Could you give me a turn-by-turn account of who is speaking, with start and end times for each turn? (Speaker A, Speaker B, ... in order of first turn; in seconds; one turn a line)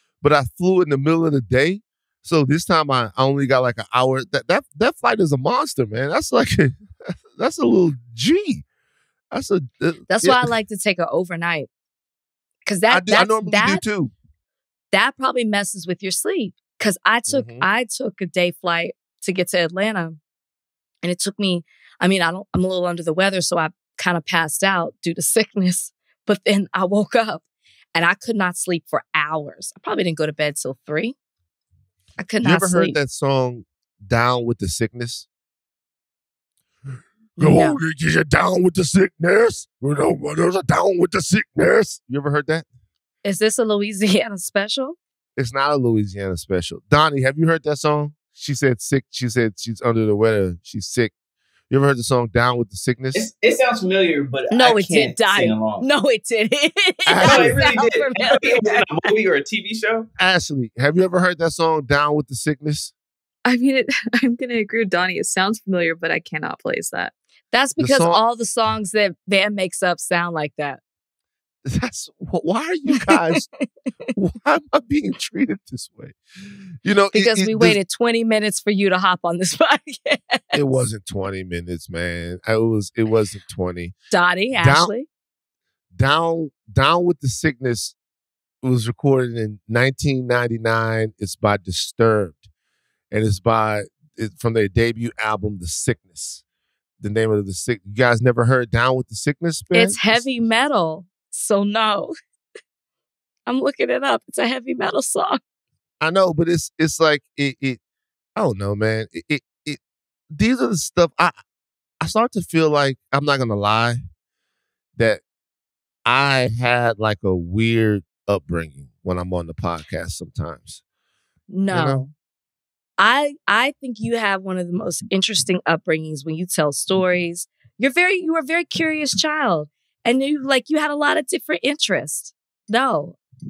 Speaker A: 0.2-6.8
Speaker A: 7.4-8.6
Speaker A: 9.3-10.5
Speaker B: 10.1-11.7
Speaker B: 12.6-13.8
Speaker A: 12.9-14.1
Speaker B: 14.9-20.2
Speaker A: 17.3-17.7
Speaker B: 21.0-31.1
Speaker B: 32.2-33.0
Speaker A: 32.4-35.2
Speaker B: 37.4-37.8
Speaker A: 37.4-42.6
Speaker B: 43.2-45.0
Speaker A: 45.4-51.1
Speaker A: 51.7-53.3
Speaker C: 53.1-55.8
Speaker B: 54.5-59.1
Speaker A: 57.0-57.6
Speaker C: 57.2-60.1
Speaker A: 60.2-62.9
Speaker D: 63.5-67.1
Speaker B: 67.5-70.8
Speaker A: 67.8-68.2
Speaker A: 71.6-73.5
Speaker B: 72.9-73.7
Speaker A: 74.1-77.8
Speaker B: 77.1-80.6
Speaker A: 80.5-83.9
Speaker B: 84.1-85.1
Speaker A: 84.5-84.9
Speaker A: 85.9-87.9
Speaker A: 88.6-92.4
Speaker A: 93.1-96.4
Speaker A: 97.0-100.3
Speaker B: 99.7-102.1
Speaker B: 103.5-105.4
Speaker A: 106.0-107.8
Speaker A: 108.3-109.8
Speaker A: 110.3-111.4
Speaker A: 112.0-114.0
Speaker A: 115.0-115.2
Speaker A: 116.0-120.8
Speaker B: 121.5-122.1
Speaker A: 121.7-122.1
Speaker B: 123.0-133.2